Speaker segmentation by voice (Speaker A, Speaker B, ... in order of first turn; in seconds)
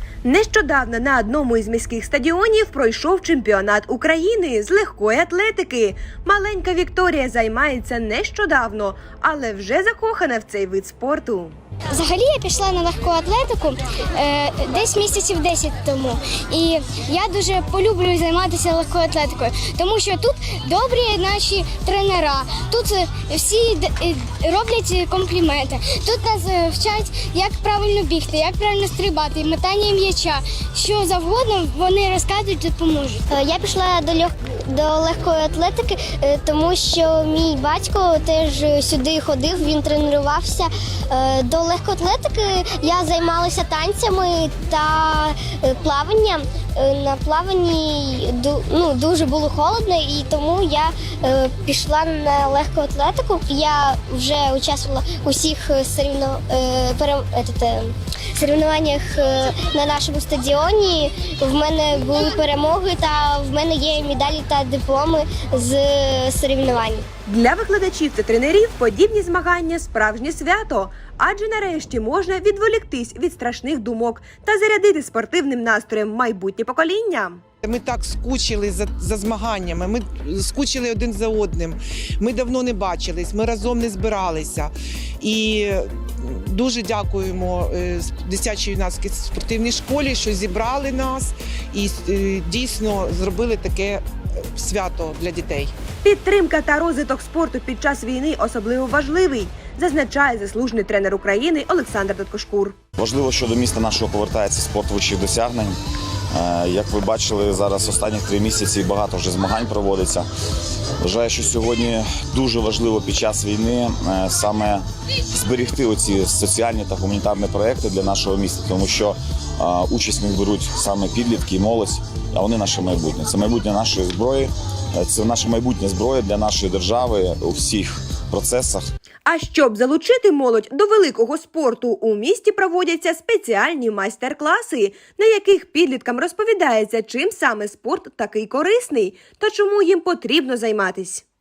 Speaker A: 0.2-11.5, 67.3-77.4, 96.0-102.8, 129.2-141.2
Speaker B: 11.9-33.2
Speaker C: 33.3-67.1
Speaker D: 77.6-95.7
Speaker E: 103.0-105.7, 106.3-110.2, 111.0-128.9